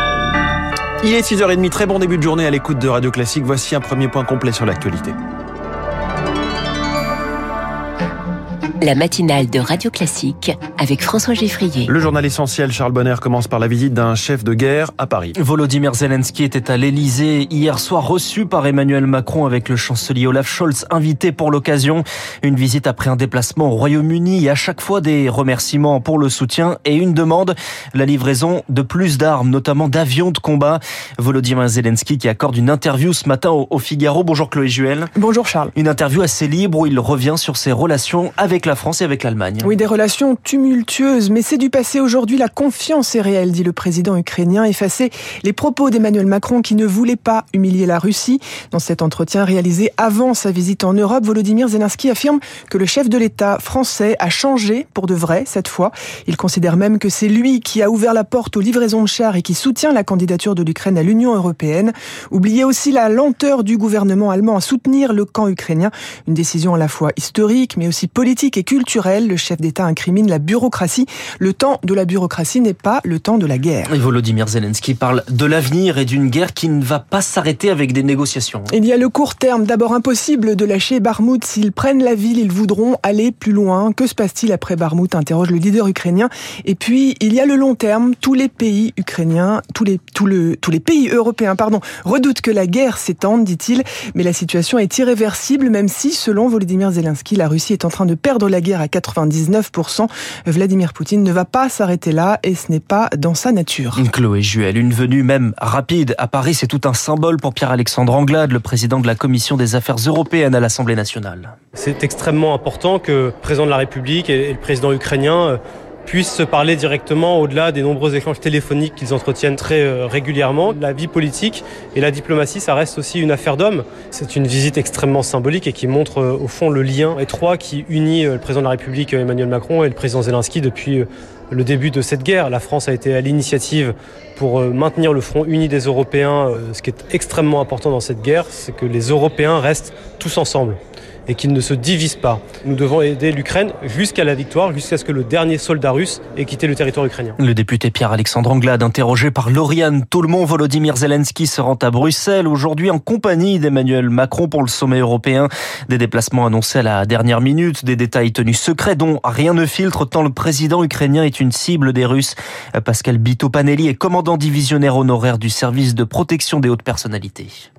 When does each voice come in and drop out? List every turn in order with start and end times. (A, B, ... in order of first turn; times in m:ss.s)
0:01.0-0:05.2 A
0:08.8-0:11.9 B
0:11.9-0:15.3 A
0:15.4-0:35.1 C
0:35.2-0:35.7 D
0:35.8-0:39.7 C
0:39.6-1:14.0 D
1:13.9-1:18.7 C
1:18.7-1:44.0 D
1:44.0-1:51.6 C
1:51.8-2:27.4 E
2:27.4-2:47.6 C